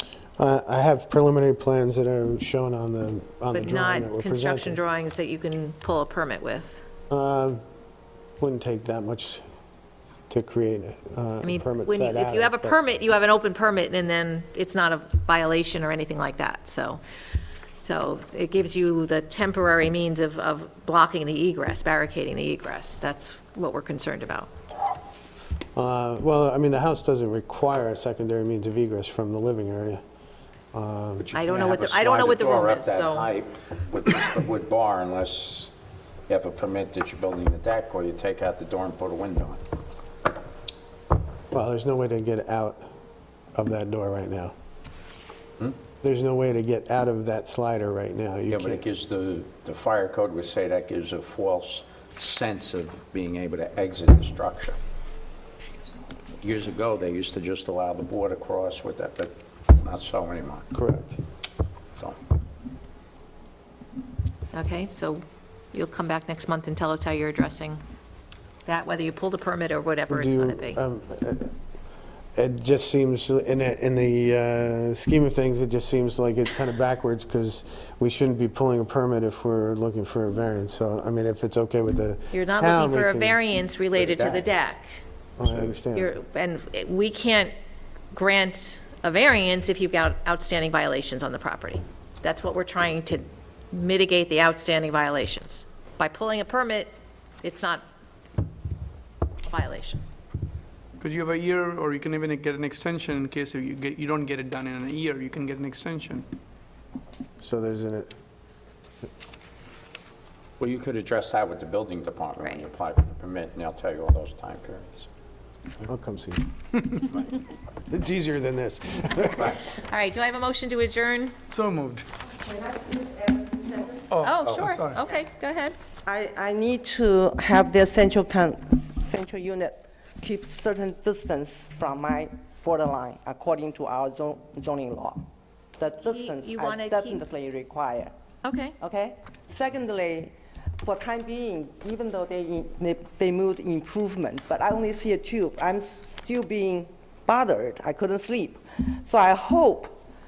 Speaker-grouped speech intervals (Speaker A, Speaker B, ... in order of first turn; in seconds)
Speaker A: 0.4-4.8, 7.1-7.6, 8.4-9.4, 10.3-12.8, 25.7-30.0, 30.7-31.2, 41.5-42.9, 43.5-44.5, 46.0-48.8, 60.7-61.2, 70.1-71.5, 72.3-83.4, 85.4-86.1, 107.4-108.1, 115.8-117.1, 117.9-119.6
Speaker B: 3.5-6.8, 11.4-17.0, 17.8-24.5, 31.3-33.3, 64.5-67.8, 68.6-70.8, 82.3-85.0, 85.9-87.5, 88.1-97.8, 99.5-100.0, 112.4-112.6, 119.5-121.4, 124.2-125.7, 136.0-137.2, 138.4-138.8
Speaker C: 31.2-35.7, 36.3-39.6, 48.5-54.8, 56.4-60.7, 83.9-84.5, 85.5-85.7, 110.6-115.1
Speaker D: 101.0-106.2, 121.5-122.0, 124.1-125.0
Speaker E: 122.2-124.2, 126.0-135.2, 135.8-138.1, 138.8-149.9